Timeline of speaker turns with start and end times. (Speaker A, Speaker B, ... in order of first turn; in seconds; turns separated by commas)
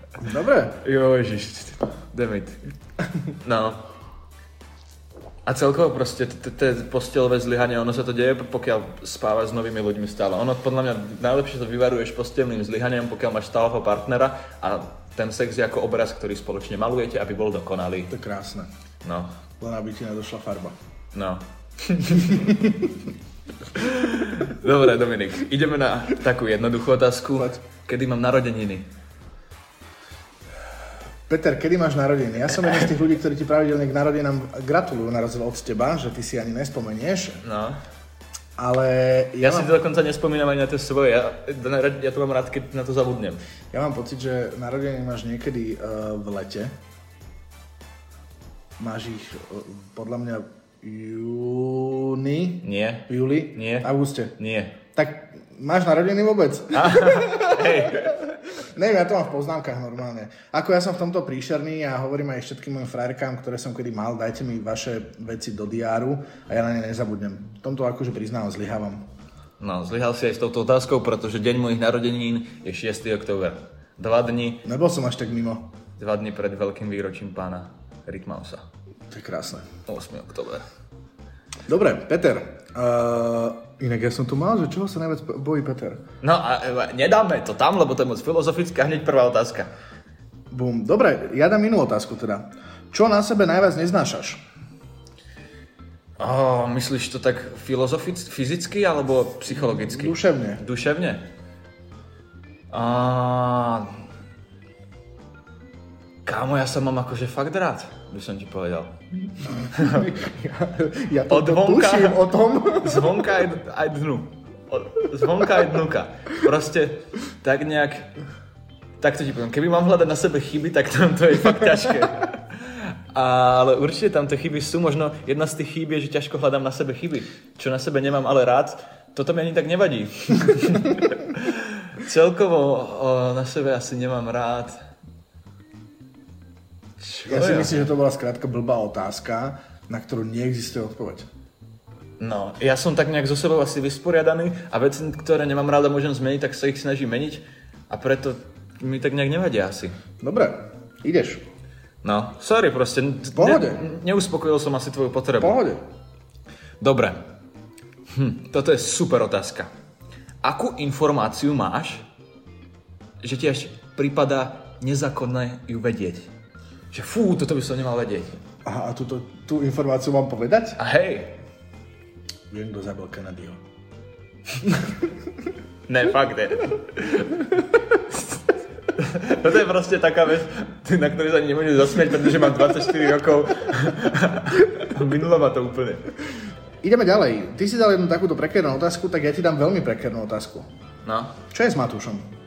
Speaker A: 0.2-0.8, Speaker B: 0.8-2.6, Speaker B: 3.4-3.8, Speaker B: 5.5-18.1, Speaker A: 18.1-18.7, Speaker B: 19.0-19.3, Speaker A: 19.6-20.8, Speaker B: 21.1-22.4, Speaker A: 22.2-23.0, Speaker B: 23.7-28.9, Speaker A: 31.3-37.4, Speaker B: 37.4-37.8, Speaker A: 38.6-39.7, Speaker B: 39.4-43.4, Speaker A: 43.7-46.7, Speaker A: 48.8-54.4, Speaker B: 52.6-54.8, Speaker A: 54.9-69.0, Speaker B: 56.7-58.2, Speaker B: 69.6-74.6, Speaker A: 74.6-75.7, Speaker B: 76.0-78.7, Speaker A: 79.1-79.7, Speaker B: 79.9-80.6, Speaker A: 81.7-86.0, Speaker B: 86.2-89.7, Speaker A: 90.5-94.4, Speaker B: 96.2-101.3, Speaker A: 99.7-100.6, Speaker B: 102.7-103.9, Speaker B: 106.2-108.9, Speaker A: 109.6-113.2, Speaker B: 109.7-110.1, Speaker B: 111.3-118.1, Speaker B: 119.0-134.8, Speaker B: 137.0-137.9, Speaker A: 137.2-141.3, Speaker B: 142.2-150.0, Speaker A: 150.2-151.4, Speaker B: 152.0-155.6, Speaker A: 153.3-153.8, Speaker A: 155.4-155.8, Speaker B: 156.8-157.2, Speaker B: 158.1-159.7, Speaker B: 160.4-162.0, Speaker B: 163.2-166.3, Speaker B: 166.9-168.4, Speaker A: 168.6-170.8, Speaker B: 170.8-171.4, Speaker A: 172.5-173.6, Speaker B: 175.9-178.4, Speaker B: 178.9-186.1, Speaker A: 186.8-190.7, Speaker B: 191.0-191.3, Speaker A: 191.5-192.2